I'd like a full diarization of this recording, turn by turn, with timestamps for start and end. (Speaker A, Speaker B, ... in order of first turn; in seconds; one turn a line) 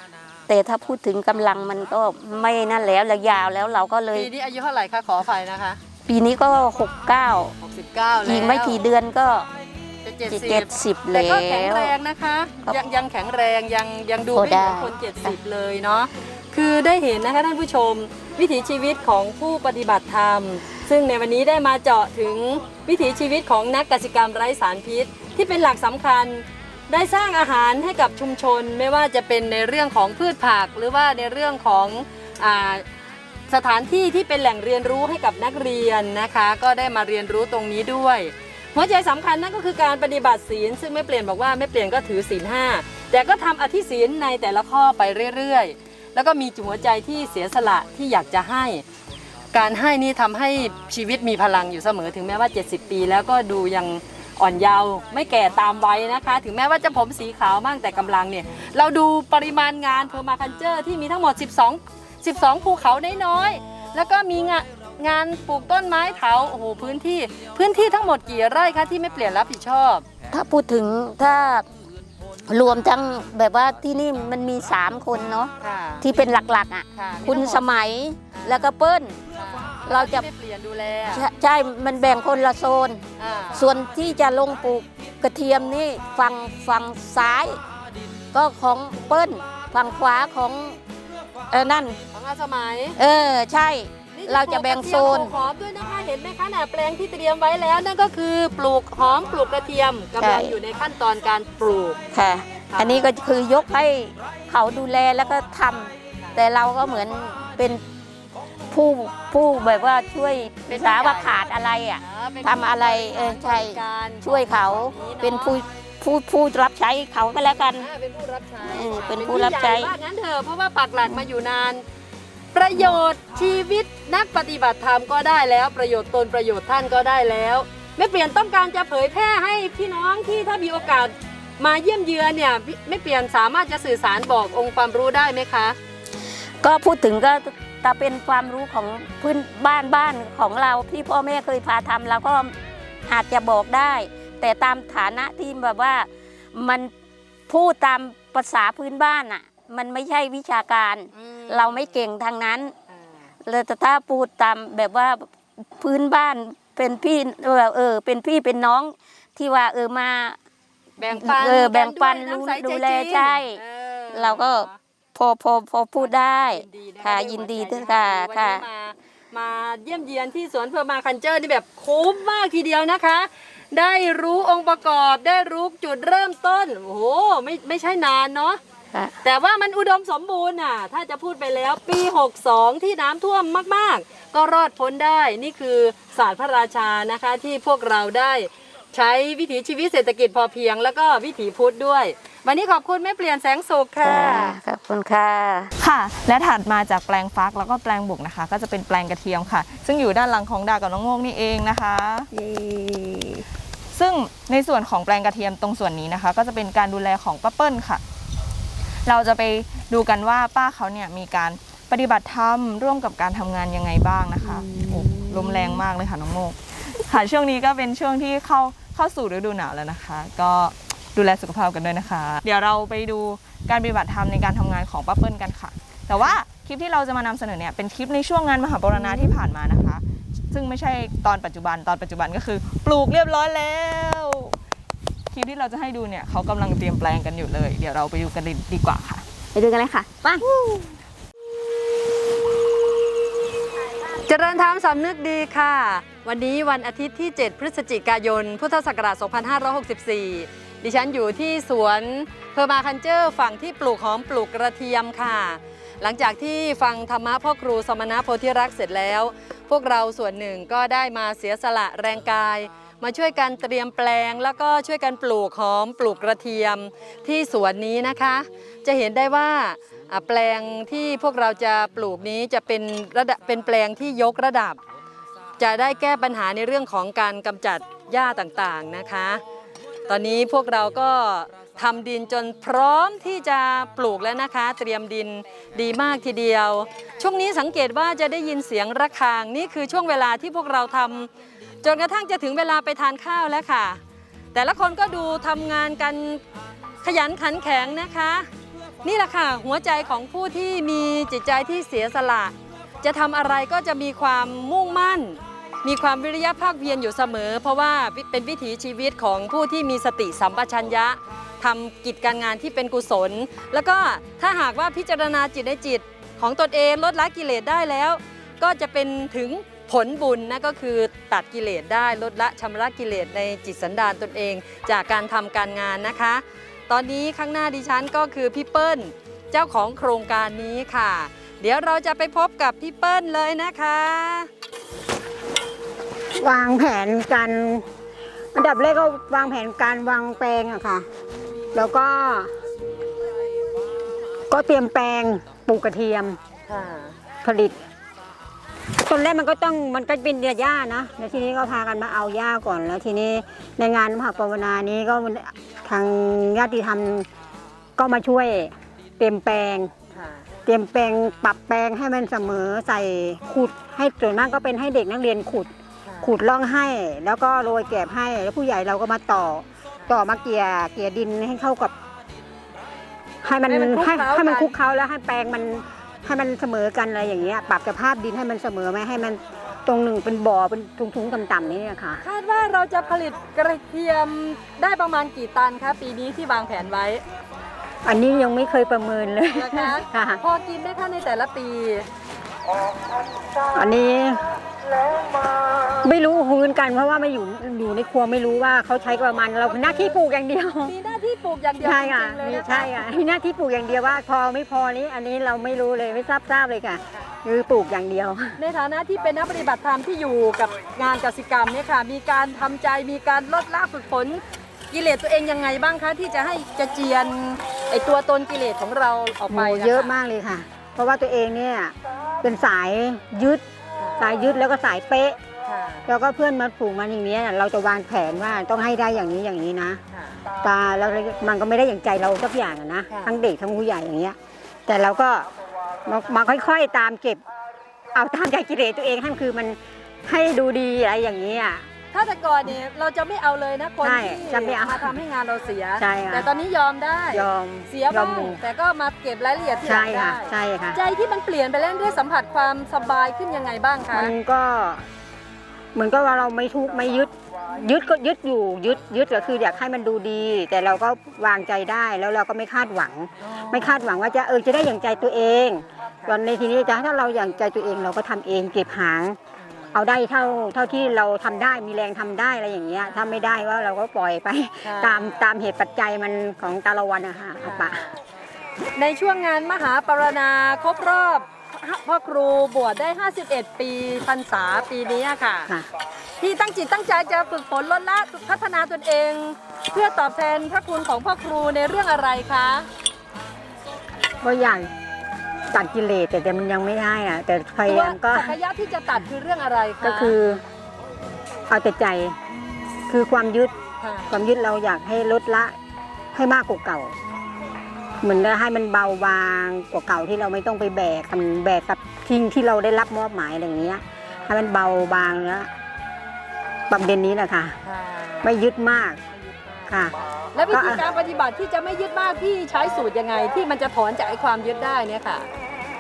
Speaker A: 0.5-4.3
Speaker B: 4.1-5.8
Speaker A: 6.1-7.5
Speaker B: 7.6-8.8
Speaker A: 8.2-9.5
Speaker B: 10.1-32.9
Speaker A: 10.3-11.9
Speaker A: 14.3-15.3
Speaker B: 33.5-48.8
Speaker B: 49.5-70.0
Speaker A: 70.3-71.7
Speaker A: 72.5-79.2
Speaker B: 75.6-76.0
Speaker B: 77.0-77.6
Speaker B: 78.3-78.7
Speaker B: 79.4-81.3
Speaker A: 79.9-80.3
Speaker A: 81.1-83.0
Speaker B: 83.2-83.7
Speaker A: 83.5-87.6
Speaker A: 88.3-90.8
Speaker A: 91.5-92.0
Speaker B: 92.1-93.0
Speaker A: 93.0-95.3
Speaker B: 94.2-102.0
Speaker A: 100.2-100.6
Speaker A: 102.1-107.8
Speaker B: 102.7-103.0
Speaker A: 108.7-117.9
Speaker B: 110.7-111.4
Speaker B: 112.0-115.6
Speaker B: 117.8-121.8
Speaker A: 118.6-120.0
Speaker B: 122.5-135.8
Speaker A: 136.6-142.5
Speaker A: 143.1-146.9
Speaker A: 147.5-152.7
Speaker B: 151.2-151.9
Speaker B: 152.9-153.3
Speaker A: 153.4-160.4
Speaker B: 161.0-164.8
Speaker A: 161.1-163.6
Speaker A: 164.1-168.6
Speaker B: 166.0-178.6
Speaker B: 179.2-194.6
Speaker A: 194.0-195.7
Speaker C: 195.8-202.3
Speaker D: 202.3-203.4
Speaker C: 203.9-208.0
Speaker C: 209.1-234.6
Speaker D: 214.4-215.8
Speaker D: 229.1-229.3
Speaker C: 235.3-239.2
Speaker D: 239.5-240.5
Speaker B: 240.5-240.8
Speaker B: 244.1-274.8
Speaker B: 275.6-279.4
Speaker B: 280.1-291.3
Speaker B: 291.8-294.0
Speaker B: 294.5-296.4
Speaker B: 297.0-298.5
Speaker B: 299.0-334.5
Speaker E: 336.4-337.9
Speaker E: 338.6-341.1
Speaker E: 341.7-342.5
Speaker E: 344.5-346.4
Speaker B: 346.7-347.1
Speaker E: 347.4-347.8
Speaker E: 349.1-357.3
Speaker E: 358.0-359.9
Speaker B: 360.1-360.4
Speaker E: 360.7-365.7
Speaker B: 366.1-366.3
Speaker E: 366.2-371.9
Speaker E: 373.4-382.2
Speaker B: 373.7-374.8
Speaker B: 382.2-387.2
Speaker E: 388.1-390.4
Speaker B: 389.5-392.1
Speaker E: 393.7-394.4
Speaker E: 395.9-400.9
Speaker B: 399.9-400.1
Speaker B: 400.8-403.2
Speaker E: 401.8-408.6
Speaker B: 408.6-420.1
Speaker E: 419.5-423.6
Speaker B: 424.0-424.2
Speaker E: 424.2-425.4
Speaker B: 425.7-426.1
Speaker E: 426.1-430.0
Speaker B: 430.1-430.4
Speaker E: 430.6-435.5
Speaker B: 433.1-433.4
Speaker E: 436.1-437.4
Speaker E: 438.1-441.9
Speaker B: 442.1-454.3
Speaker E: 444.0-445.1
Speaker E: 446.0-446.5
Speaker E: 447.3-448.6
Speaker E: 449.9-451.0
Speaker E: 454.1-455.1
Speaker E: 455.9-469.4
Speaker B: 463.4-464.0
Speaker B: 469.6-469.9
Speaker E: 469.9-478.0
Speaker B: 473.1-473.4
Speaker B: 474.8-475.4
Speaker B: 477.6-478.1
Speaker B: 479.0-485.7
Speaker B: 486.4-492.9
Speaker E: 494.4-494.9
Speaker E: 495.7-498.5
Speaker B: 497.9-500.4
Speaker E: 500.0-500.6
Speaker E: 501.7-502.4
Speaker E: 503.1-503.7
Speaker B: 504.0-504.3
Speaker E: 504.3-505.8
Speaker E: 506.3-507.1
Speaker B: 507.4-508.1
Speaker E: 508.2-515.7
Speaker E: 516.9-517.8
Speaker B: 517.8-518.5
Speaker E: 518.4-519.2
Speaker B: 519.3-519.9
Speaker E: 519.9-520.1
Speaker B: 520.5-525.5
Speaker E: 520.7-521.0